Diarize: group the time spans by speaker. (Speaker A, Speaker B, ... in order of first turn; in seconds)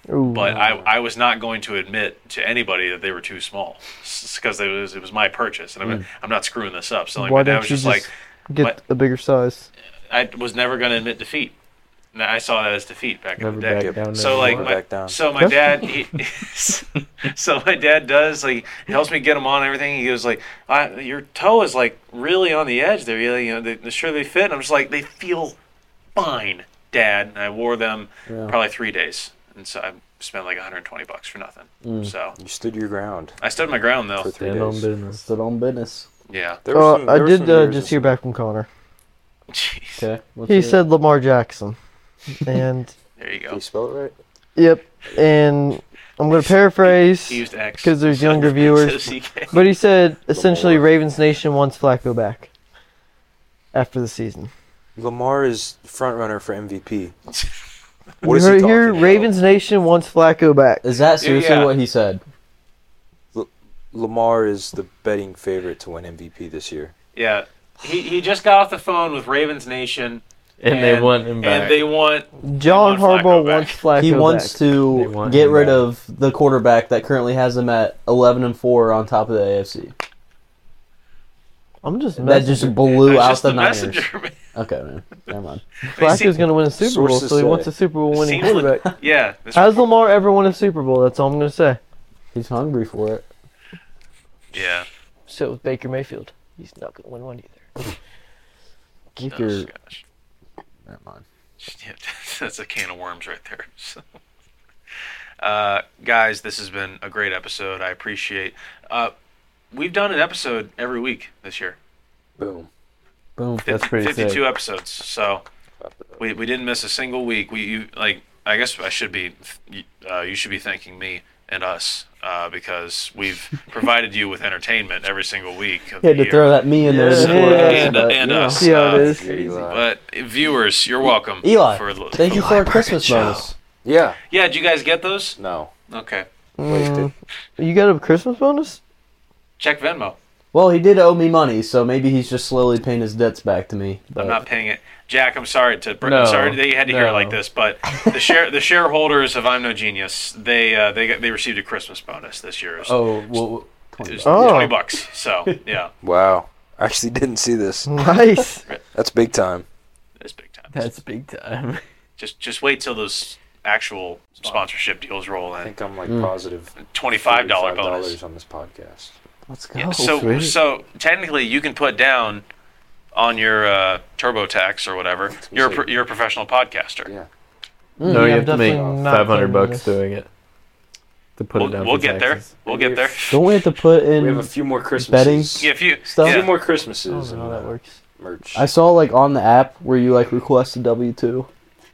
Speaker A: 0.1-0.6, 7.2-9.7, 36.7-38.7, 40.5-41.8, 42.4-42.9, 44.6-52.5, 53.7-54.5, 58.2-60.9, 72.4-74.6, 81.8-82.8, 85.9-88.9, 89.5-91.8, 95.3-97.8, 99.2-99.7, 126.9-128.0, 128.6-129.3, 136.6-138.8, 154.2-154.8, 157.9-158.7, 178.1-180.0, 187.1-188.0
Speaker B: 0.3-8.8, 10.1-11.6, 12.1-25.6, 26.1-32.4, 33.4-34.3, 36.3-36.6, 39.5-40.1, 43.2-43.6, 46.9-49.5, 61.2-61.7, 67.1-73.8, 83.0-84.4, 85.9-86.5, 88.1-89.9, 94.5-94.9, 99.3-100.0, 101.6-104.0, 105.4-109.1, 109.7-111.8, 113.7-115.4, 116.2-133.5, 134.3-135.4, 135.9-136.3, 139.6-140.2, 144.1-153.1, 154.0-155.9, 160.2-160.9, 162.2-165.7, 166.8-168.2, 169.8-172.4, 173.1-177.1, 181.6-183.6, 185.6-186.5
Speaker C: 0.5-0.9, 28.3-28.6, 31.8-32.1, 35.1-36.1, 40.0-40.8, 60.8-62.2, 74.0-79.9, 82.2-85.7, 92.3-93.3, 99.2-99.6, 100.9-101.2, 113.4-113.7, 126.0-128.7, 131.4-133.5, 140.5-144.4, 148.0-148.3, 153.9-154.8, 169.5-170.3, 178.0-178.4, 183.3-186.4, 188.6-191.5
Speaker D: 13.4-14.8, 34.4-35.2, 70.6-71.8, 74.9-75.8, 113.7-114.4, 129.2-129.6, 146.0-147.4, 152.8-153.7, 160.7-161.8, 170.1-170.6, 178.0-180.3, 181.4-182.6
Speaker E: 13.8-15.2, 32.4-34.9, 36.6-38.1, 43.5-44.2, 50.3-50.9, 55.0-57.1, 58.2-59.3, 63.3-66.9, 86.8-87.7, 112.4-112.7, 115.8-116.2, 128.7-129.8, 133.8-134.2, 135.4-135.7, 136.7-137.1, 156.0-157.9, 158.9-159.7, 165.6-169.2, 175.4-175.9, 178.5-179.1, 182.7-183.3, 184.1-188.7